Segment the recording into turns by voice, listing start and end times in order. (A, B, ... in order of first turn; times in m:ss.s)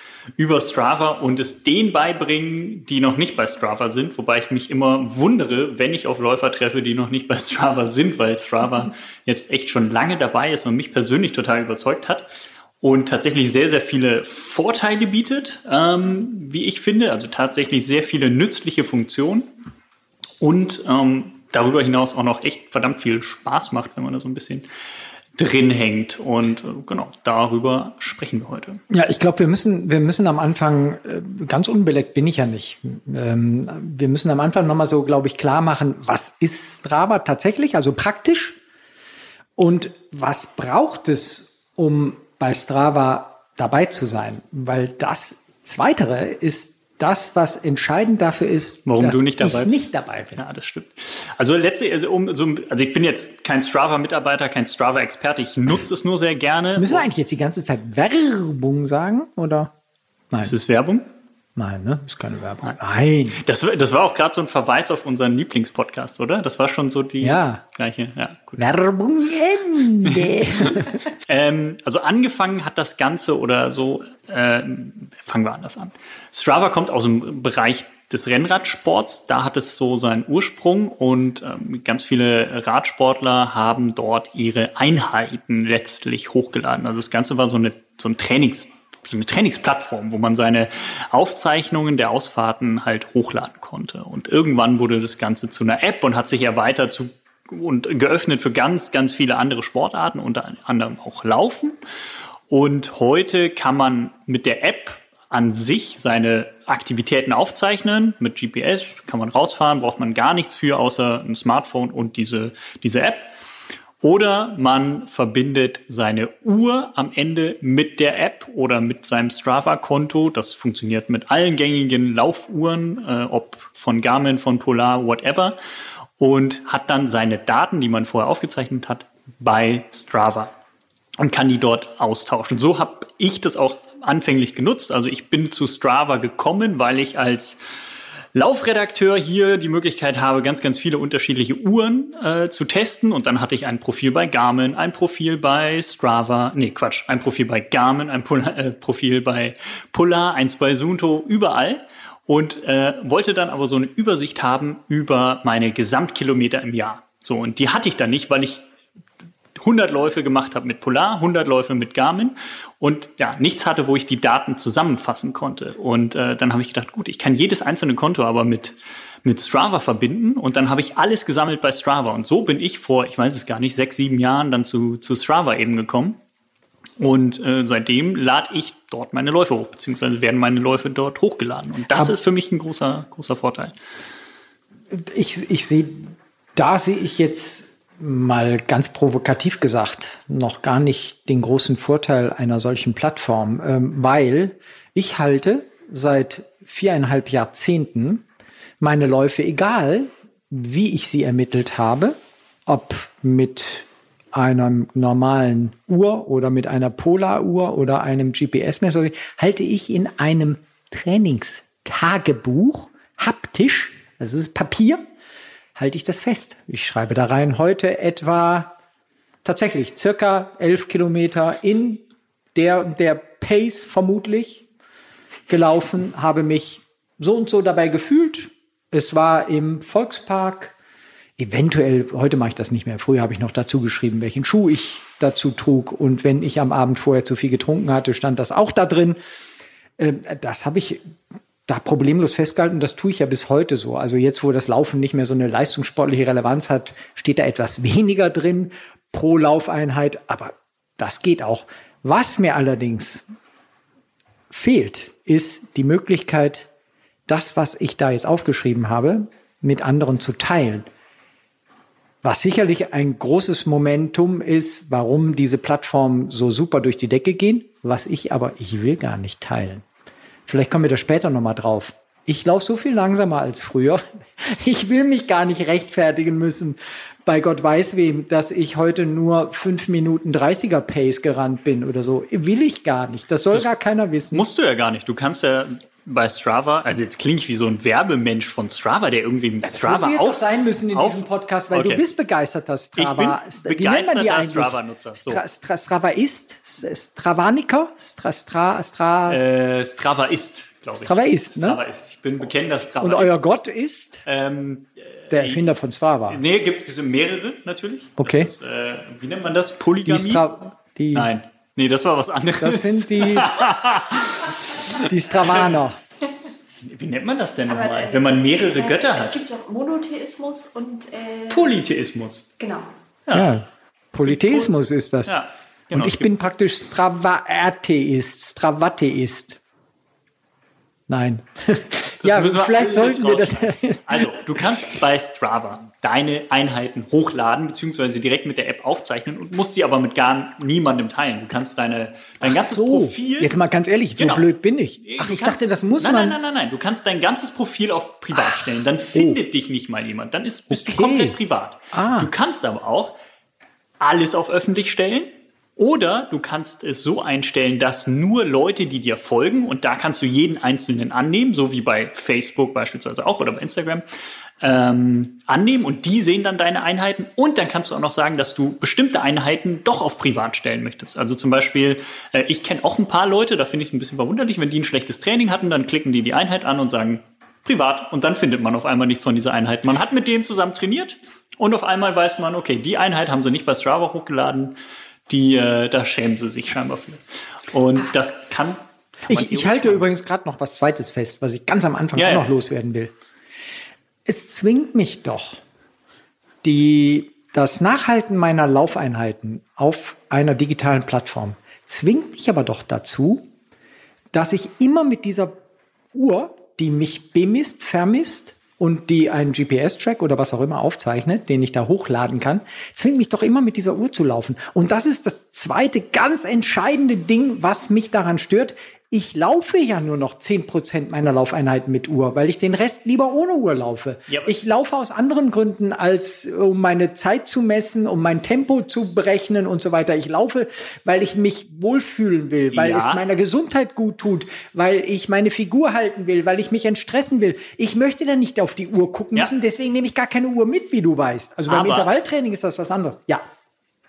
0:00.4-0:12.3 A
0:12.8-0:19.5 A
0:20.4-0:24.7 A
0:25.4-0:28.8 A
0:28.9-0:38.6 B
0:39.6-0:50.4 B
0:48.8-0:49.8 A
0:50.4-0:57.1 A
0:56.8-0:59.7 B
1:00.4-1:01.1 A
1:01.6-1:03.4 B
1:03.4-1:08.7 A
1:07.2-1:07.6 B
1:08.6-1:11.0 B
1:10.0-1:41.8 A
1:42.5-1:53.3 A
1:54.0-2:05.6 A
2:06.2-2:10.5 A
2:11.2-2:17.6 A
2:18.4-2:38.6 A
2:39.6-2:56.2 A
2:57.0-3:03.8 A
3:04.9-3:18.2 B
3:18.8-3:22.2 B
3:22.7-3:35.0 B
3:35.8-3:38.7 B
3:39.4-3:42.0 B
3:42.6-3:44.7 B
3:45.5-3:50.7 B
3:51.4-3:59.2 B
4:00.0-4:01.1 B
4:01.7-4:13.2 B
4:14.5-4:16.7 B
4:17.3-4:20.9 B
4:22.2-4:29.8 B
4:30.5-4:44.5 B
4:44.3-4:52.0 A
4:49.6-4:59.5 B
4:53.0-4:55.4 A
4:59.3-5:03.4 A
5:01.0-5:01.8 B
5:03.0-5:04.2 B
5:04.2-5:05.6 A
5:05.3-5:06.4 B
5:06.3-5:10.4 A
5:08.2-5:08.5 B
5:10.1-5:11.3 B
5:11.1-5:15.7 A
5:12.6-5:13.5 B
5:14.9-5:16.0 B
5:16.8-5:19.4 A
5:17.7-5:21.7 C
5:21.5-5:22.4 A
5:22.6-5:22.9 C
5:23.3-5:23.5 A
5:23.3-5:25.3 B
5:24.2-5:24.7 A
5:25.3-5:26.3 A
5:25.9-5:29.6 B
5:31.1-5:34.6 B
5:32.2-5:43.5 A
5:42.4-5:46.4 B
5:44.2-5:44.5 A
5:45.0-5:53.2 A
5:48.4-5:49.4 B
5:50.7-5:51.4 B
5:51.9-5:52.3 B
5:54.0-6:04.0 A
6:04.6-6:24.8 A
6:25.3-6:30.0 A
6:29.3-6:33.1 B
6:32.2-6:32.5 A
6:34.3-6:35.6 B
6:36.6-6:43.5 B
6:44.3-6:45.6 B
6:46.1-7:23.4 B
7:12.7-7:13.2 A
7:21.7-7:22.1 A